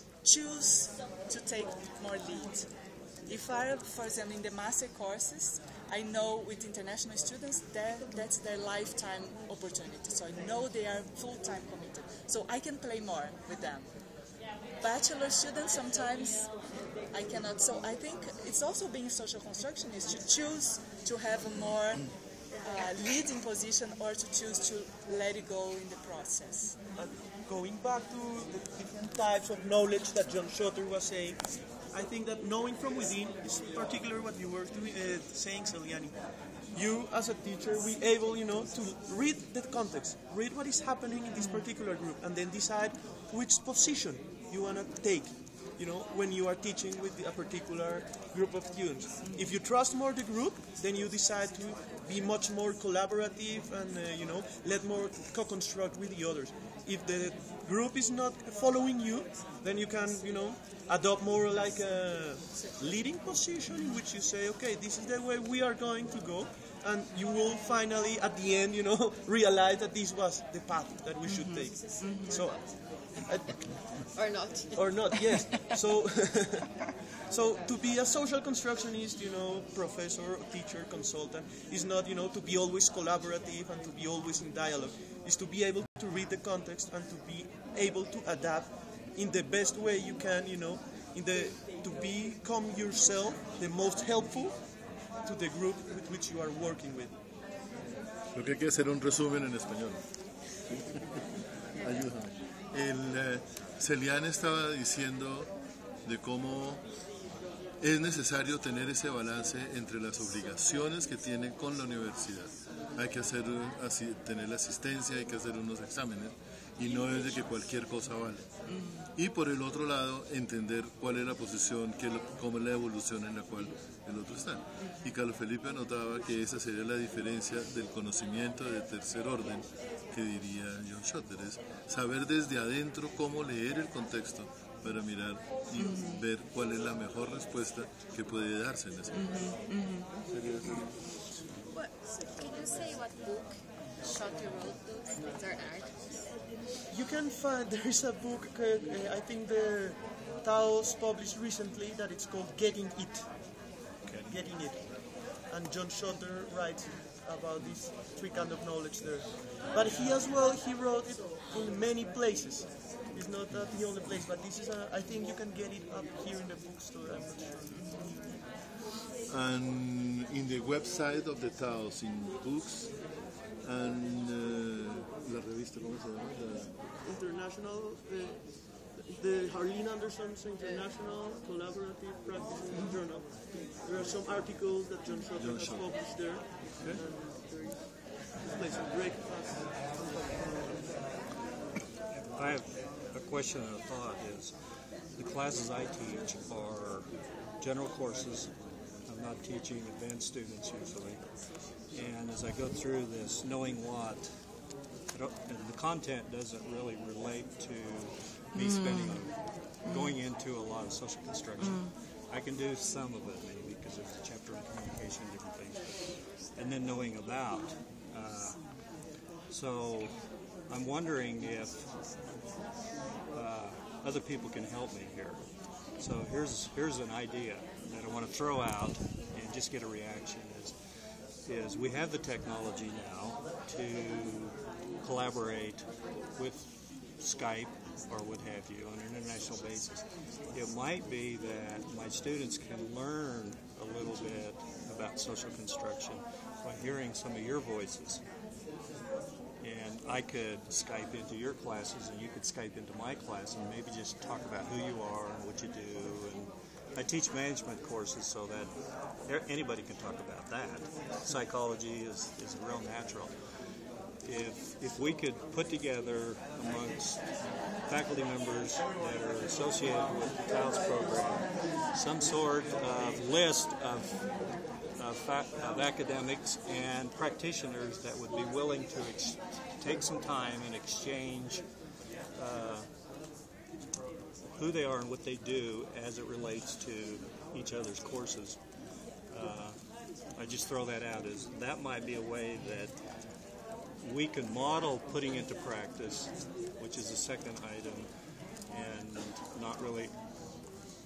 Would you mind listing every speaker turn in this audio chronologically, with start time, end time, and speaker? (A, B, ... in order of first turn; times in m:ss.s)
0:00.2-0:02.6 A
0:03.3-0:13.8 A
0:14.8-0:16.5 A
0:17.1-0:26.8 A
0:27.0-0:36.2 B
0:36.7-1:13.8 B
0:41.4-0:41.6 A
0:49.2-0:49.5 A
1:11.3-1:12.4 A
1:14.1-1:15.1 C
1:14.7-1:16.7 B
1:17.3-1:37.1 B
1:38.3-1:40.0 D
1:40.7-1:45.5 D
1:46.0-1:46.8 D
1:47.8-1:58.4 D
1:58.7-1:59.0 A
1:59.2-2:19.5 D
2:15.8-2:16.2 A
2:19.1-2:20.1 A
2:20.2-2:21.0 D
2:21.7-2:26.3 C
2:26.9-2:33.7 B
2:34.0-2:34.4 E
2:34.2-2:47.8 B
2:47.8-2:48.2 A
2:49.3-2:53.0 D
2:53.6-2:56.7 D
2:57.0-3:10.9 B
3:05.3-3:05.9 D
3:12.3-3:14.5 E
3:15.1-3:18.5 E
3:19.0-3:21.2 E
3:21.8-3:24.3 E
3:25.1-3:38.9 E
3:28.5-3:30.2 A
3:31.6-3:31.9 A
3:39.5-3:41.8 E
3:43.3-3:50.7 E
3:51.4-4:08.2 E
4:09.6-4:23.3 E
4:24.2-4:27.3 E
4:27.8-4:34.3 E
4:34.9-4:41.6 E
4:42.3-4:42.9 E
4:44.5-4:48.6 E
4:49.3-4:49.8 E
4:50.3-4:53.0 E
4:54.0-4:58.1 E
4:58.7-5:00.1 E